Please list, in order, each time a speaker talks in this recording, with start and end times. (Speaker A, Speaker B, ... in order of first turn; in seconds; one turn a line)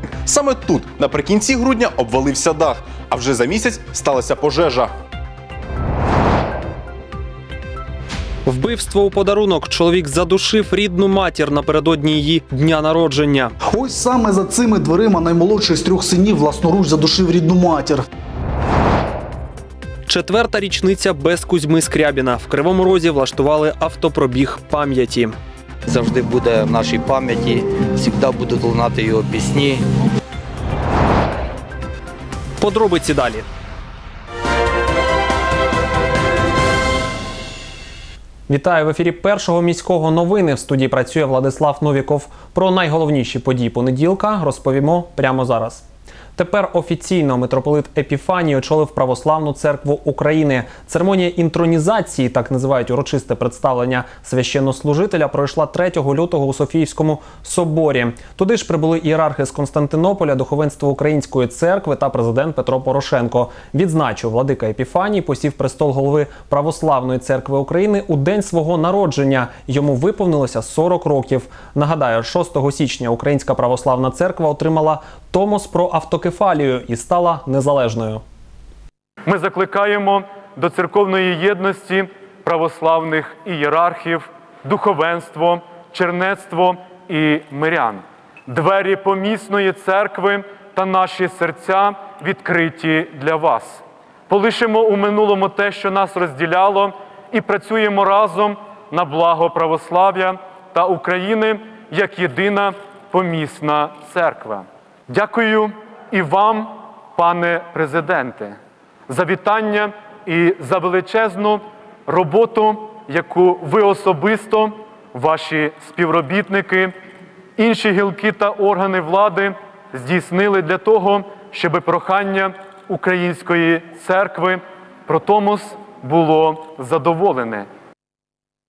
Speaker A: 0.2-4.9
Speaker B: 8.4-13.5
Speaker C: 13.7-18.0
Speaker B: 20.1-25.3
Speaker D: 25.9-29.8
Speaker B: 32.6-33.5
Speaker B: 38.5-45.8
Speaker B: 46.4-78.2
Speaker E: 79.2-108.6
Speaker E: 109.1-116.9
Speaker E: 117.6-127.7